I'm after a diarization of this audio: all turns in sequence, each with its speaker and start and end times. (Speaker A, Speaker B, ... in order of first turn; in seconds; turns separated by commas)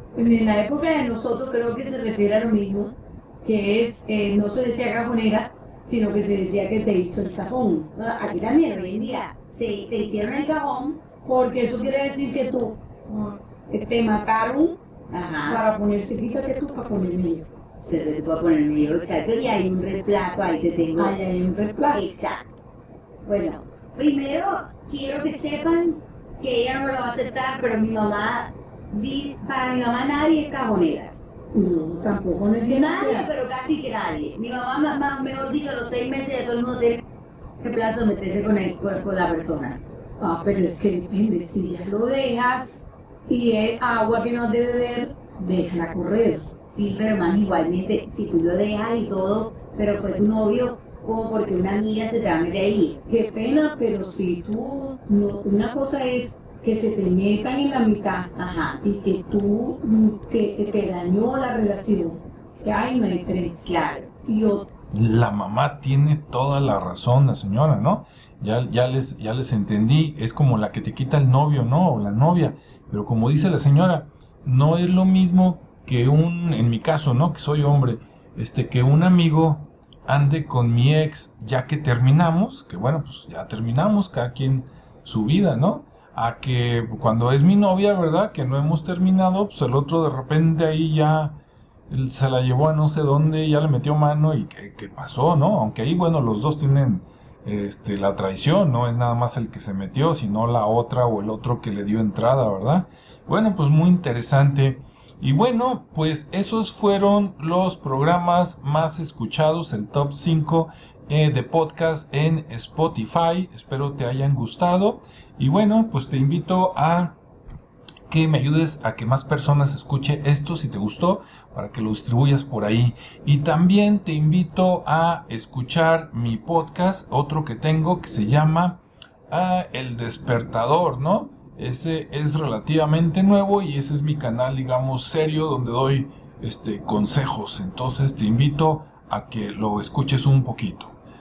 Speaker A: 0.1-7.9, Speaker B: 7.9-11.1, Speaker A: 11.1-14.8, Speaker B: 15.1-15.6, Speaker A: 15.4-17.5, Speaker B: 17.8-21.2, Speaker A: 20.9-22.1, Speaker B: 21.9-22.5, Speaker B: 23.2-31.9, Speaker A: 31.5-33.3, Speaker B: 32.6-37.0, Speaker B: 37.6-39.8, Speaker A: 40.2-46.5, Speaker B: 44.3-44.6, Speaker B: 45.3-53.0, Speaker A: 53.0-64.7, Speaker B: 58.4-58.8, Speaker B: 63.6-64.2, Speaker C: 64.9-117.2, Speaker C: 118.1-140.9